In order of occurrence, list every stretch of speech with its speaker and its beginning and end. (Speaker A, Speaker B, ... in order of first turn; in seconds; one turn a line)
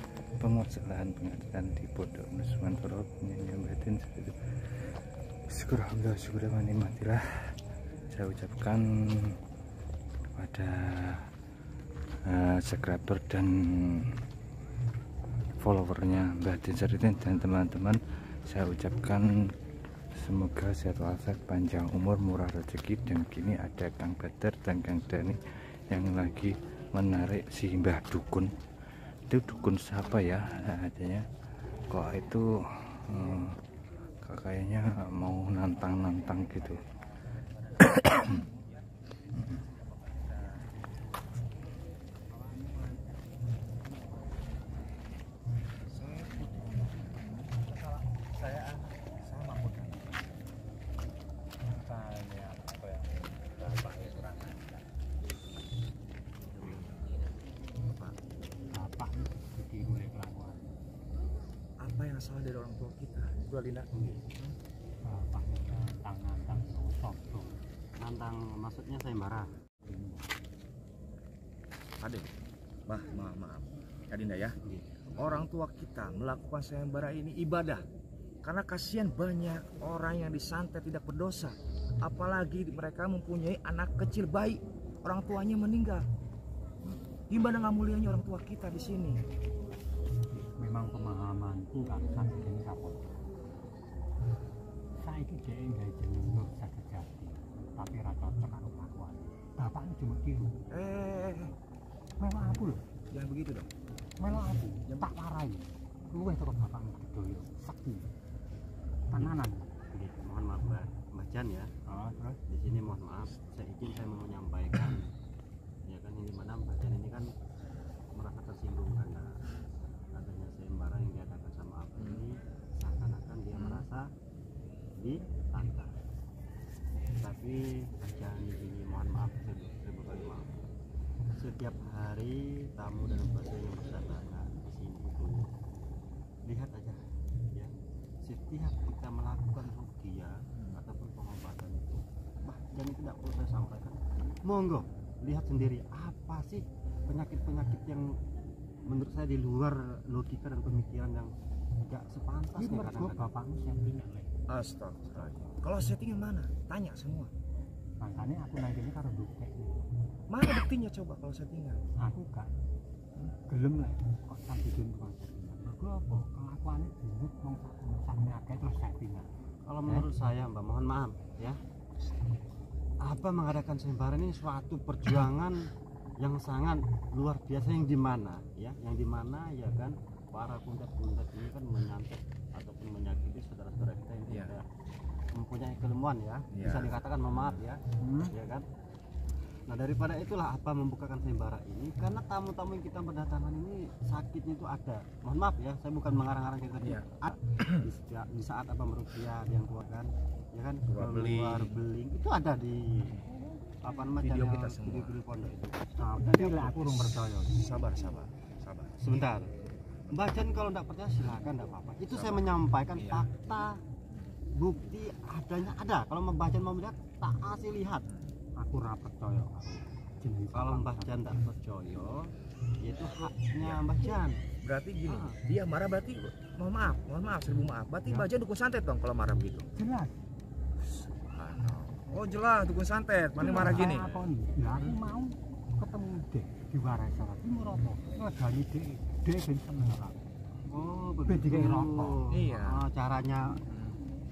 Speaker A: 0.4-4.3
Speaker A: 5.5-7.2
Speaker A: 8.1-8.8
Speaker A: 10.3-11.2
Speaker A: 12.3-14.0
Speaker A: 15.6-19.2
Speaker A: 20.2-28.5
Speaker A: 29.3-31.2
Speaker A: 31.9-33.5
Speaker A: 34.2-36.8
Speaker B: 37.2-38.8
Speaker B: 39.9-40.8
Speaker B: 42.3-44.7
Speaker C: 45.9-47.7
Speaker C: 48.2-50.1
Speaker B: 51.6-54.9
Speaker D: 56.6-56.8
Speaker C: 56.7-57.0
Speaker B: 58.7-60.7
Speaker C: 61.8-63.9
Speaker D: 63.9-64.2
Speaker B: 65.0-67.5
Speaker D: 68.0-69.5
Speaker B: 69.8-70.3
Speaker C: 72.0-72.3
Speaker C: 72.9-74.6
Speaker D: 74.6-75.4
Speaker C: 75.2-77.8
Speaker C: 78.4-86.0
Speaker C: 87.3-89.2
Speaker B: 90.3-93.2
Speaker B: 95.0-100.6
Speaker C: 100.7-101.5
Speaker B: 102.2-102.8
Speaker C: 103.1-103.7
Speaker B: 104.2-108.1
Speaker B: 109.1-109.7
Speaker D: 109.9-111.7
Speaker B: 111.9-112.4
Speaker D: 112.5-115.1
Speaker D: 115.9-117.3
Speaker D: 118.1-119.4
Speaker D: 120.0-124.1
Speaker C: 122.0-122.2
Speaker C: 123.5-123.8
Speaker D: 125.0-125.9
Speaker D: 127.2-130.7
Speaker D: 131.3-135.5
Speaker D: 136.4-137.0
Speaker D: 138.2-148.2
Speaker D: 148.8-153.3
Speaker B: 152.6-154.3
Speaker C: 154.5-157.3
Speaker B: 158.0-159.9
Speaker C: 160.3-161.8
Speaker B: 161.9-162.5
Speaker B: 163.5-169.3
Speaker D: 169.7-171.6
Speaker D: 173.0-184.6
Speaker D: 185.3-188.7
Speaker C: 186.5-187.6
Speaker B: 187.9-188.3
Speaker D: 189.7-203.2
Speaker C: 197.6-197.8
Speaker C: 200.9-201.8
Speaker D: 203.8-206.7
Speaker C: 204.2-205.1
Speaker B: 205.9-207.6
Speaker C: 207.5-209.1
Speaker D: 209.0-209.5
Speaker C: 210.1-210.5
Speaker D: 210.1-213.8
Speaker C: 212.1-213.2
Speaker D: 214.5-218.0
Speaker B: 218.6-221.3
Speaker D: 220.5-224.4
Speaker C: 224.6-229.6
Speaker B: 229.8-230.1
Speaker C: 230.8-234.1
Speaker B: 233.4-240.2
Speaker D: 240.7-243.6
Speaker B: 241.2-242.2
Speaker C: 242.3-242.8
Speaker C: 243.7-244.0